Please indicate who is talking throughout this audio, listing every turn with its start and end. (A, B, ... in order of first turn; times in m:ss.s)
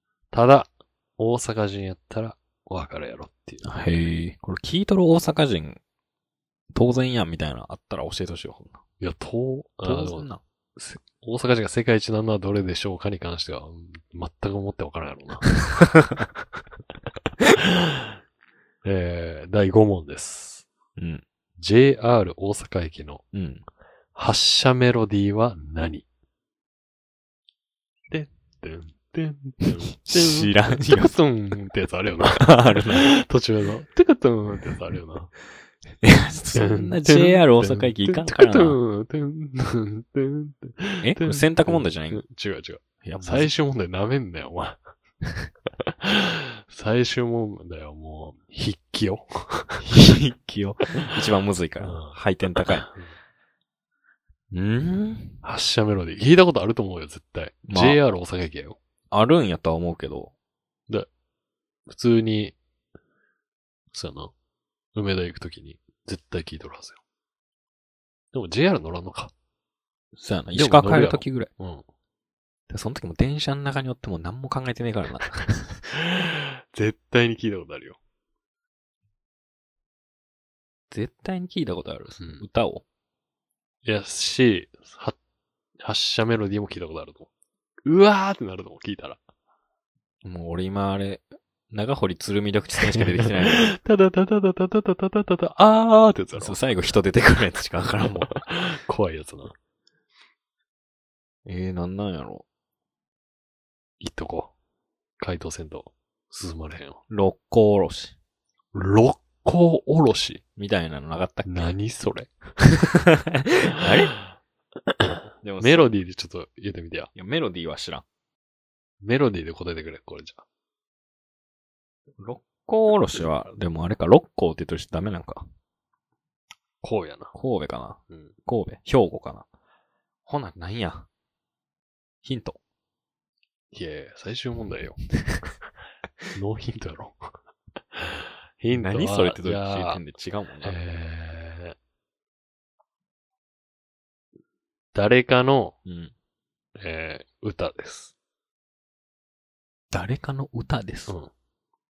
0:00.3-0:03.7 A
0:03.6-0:05.8 B
0:06.7-0:08.8 B
0:09.0-0:15.9 A
0:09.8-0:10.4 B
0:18.8-0:20.7 A
0:21.0-0:21.2 B
0:21.6-0:23.2 A
0:23.3-0:23.6 B
0:24.1-0:26.0 A
0:28.1-0:35.3 A
0:30.0-0:31.1 B
0:32.2-0:33.1 B
0:36.0-0:38.8 B
0:36.5-0:44.8 A
0:41.0-0:42.2 B
0:43.0-0:43.5 B
0:45.9-0:49.9 A
0:49.8-0:52.9 B
0:51.8-0:53.1 A
0:54.5-0:55.4 B
0:55.4-0:58.8 A
0:57.7-0:58.0 B
0:59.1-1:00.3 B
1:01.9-1:02.6 A
1:03.9-1:04.3 A
1:04.9-1:07.0 A
1:08.3-1:09.3 A
1:10.1-1:11.5 B
1:10.5-1:11.8 A
1:12.7-1:15.8 B
1:16.0-1:18.0 A
1:20.9-1:22.8 B
1:22.2-1:22.4 A
1:23.8-1:25.2 A
1:25.8-1:27.3 A
1:27.8-1:29.2 A
1:30.2-1:33.7 B
1:32.9-1:36.6 A
1:36.4-1:38.4 B
1:38.5-1:39.5 A
1:41.4-1:42.4 B
1:44.0-1:44.5 A
1:45.2-1:47.0 A
1:47.1-1:48.1 B
1:48.7-1:50.4 A
1:50.6-1:51.7 B
1:51.4-1:52.7 A
1:53.2-1:54.1 B
1:54.9-1:57.1 A
1:55.4-1:55.9 B
1:57.1-1:58.0 B
1:59.0-2:00.4 A
2:02.2-2:05.4 B
2:06.8-2:07.3 A
2:07.3-2:09.4 B
2:10.2-2:11.1 B
2:12.2-2:12.6 B
2:13.7-2:15.0 A
2:16.3-2:17.3 A
2:17.9-2:20.0 A
2:18.7-2:20.8 B
2:20.6-2:21.8 A
2:24.9-2:25.8 A
2:25.8-2:26.1 B
2:26.8-2:28.1 A
2:29.9-2:31.1 B